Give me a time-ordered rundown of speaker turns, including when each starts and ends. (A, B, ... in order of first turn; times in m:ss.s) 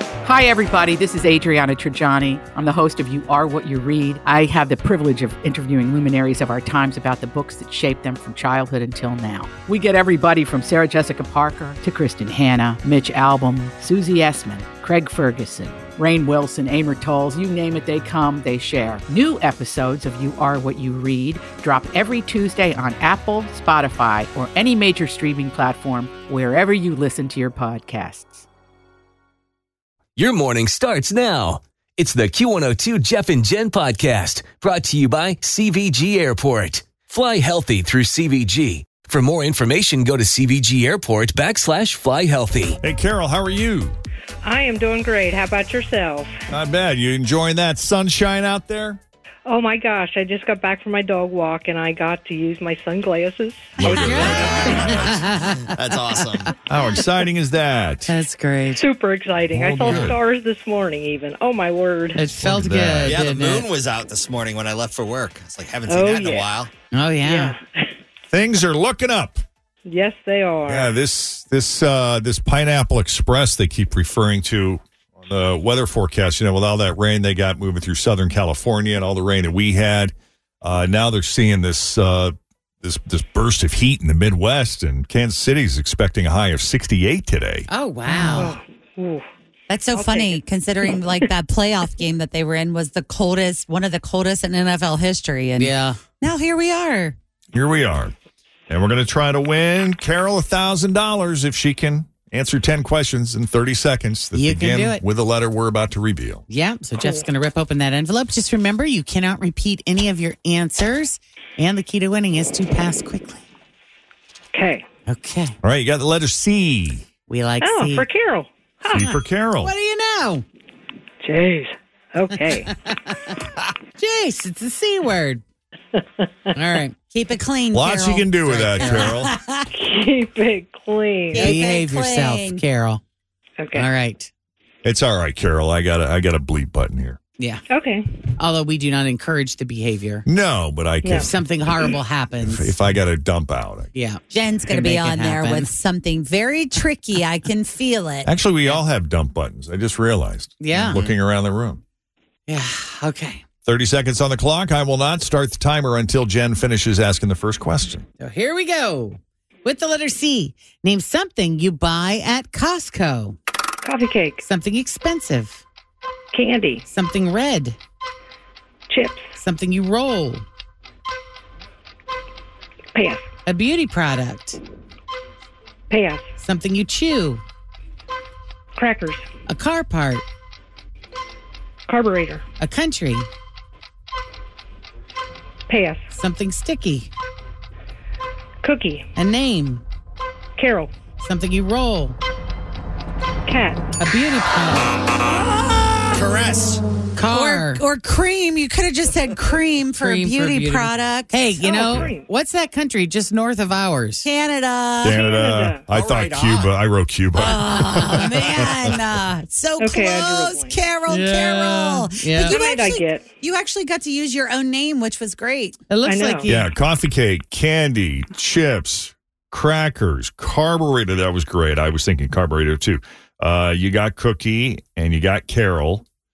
0:00.2-0:28.4 A
0:30.2-0:42.8 B
0:42.8-0:44.0 C
0:44.4-0:46.3 D
0:46.5-0:49.0 C
0:49.4-0:54.6 D
0:53.8-0:55.3 C
0:53.8-0:56.2 E
0:55.6-0:56.6 F
0:56.7-0:58.1 C
0:58.1-0:58.8 E
0:58.7-1:02.2 D
0:59.5-1:00.2 C
1:02.2-1:03.7 E
1:02.3-1:03.2 C
1:03.0-1:06.7 F
1:05.9-1:06.5 D
1:06.9-1:07.5 E
1:07.2-1:07.6 D
1:08.3-1:09.4 C
1:09.9-1:11.0 D
1:10.6-1:27.7 C
1:27.7-1:28.6 E
1:28.1-1:28.5 G
1:28.2-1:29.2 D
1:29.7-1:37.2 G
1:29.9-1:30.9 D
1:35.6-1:36.0 E
1:37.5-1:38.1 C
1:38.7-1:46.4 C
1:44.3-1:45.0 E
1:46.5-1:53.4 E
1:47.0-1:47.2 D
1:54.5-1:54.8 D
1:55.1-1:55.6 E
1:55.6-1:57.0 C
1:57.3-1:58.0 E
1:57.6-1:59.2 D
1:58.9-1:59.7 C
1:59.6-2:00.4 E
2:01.2-2:02.7 D
2:02.4-2:03.4 E
2:04.0-2:05.4 E
2:06.0-2:06.5 D
2:06.5-2:07.0 E
2:07.1-2:09.1 G
2:07.7-2:09.3 C
2:08.8-2:09.6 E
2:09.7-2:11.6 D
2:11.3-2:12.6 G
2:11.3-2:13.0 E
2:13.6-2:13.9 D
2:13.7-2:14.3 E
2:14.8-2:17.2 C
2:17.4-2:17.6 E
2:17.7-2:18.1 D
2:18.4-2:20.2 E
2:20.3-2:21.3 C
2:21.0-2:21.3 D
2:21.1-2:22.8 E
2:22.4-2:23.9 C
2:23.9-2:25.7 E
2:24.3-2:28.3 G
2:28.2-2:31.8 C
2:30.6-2:31.0 E
2:30.7-2:31.2 F
2:32.5-2:33.4 E
2:33.6-2:38.1 C
2:38.2-2:43.4 E
2:43.8-2:44.4 D
2:44.4-2:45.6 E
2:46.3-2:46.8 D
2:46.9-2:47.8 E
2:48.9-2:49.4 D
2:49.4-2:50.4 E
2:52.9-2:53.2 D
2:53.4-2:54.6 E
2:55.9-2:56.3 D
2:56.4-2:57.4 E
2:58.8-2:59.3 D
2:59.5-3:00.2 E
3:01.9-3:02.4 D
3:02.6-3:03.3 E
3:05.7-3:06.1 D
3:06.1-3:07.1 E
3:08.6-3:09.1 D
3:09.2-3:09.8 E
3:10.6-3:10.9 D
3:11.2-3:12.2 E
3:13.4-3:13.9 D
3:14.0-3:15.0 E
3:16.1-3:16.8 F
3:17.2-3:17.8 E
3:17.3-3:21.3 G
3:20.0-3:24.2 E
3:21.6-3:22.2 D
3:24.2-3:25.2 G
3:25.0-3:28.2 C
3:25.1-3:25.8 D
3:25.9-3:26.7 F
3:27.4-3:35.8 G
3:27.8-3:28.4 E
3:29.8-3:30.8 D
3:31.1-3:32.6 E
3:32.3-3:33.2 D
3:35.9-3:36.7 E
3:36.0-3:36.5 D
3:36.4-3:46.0 C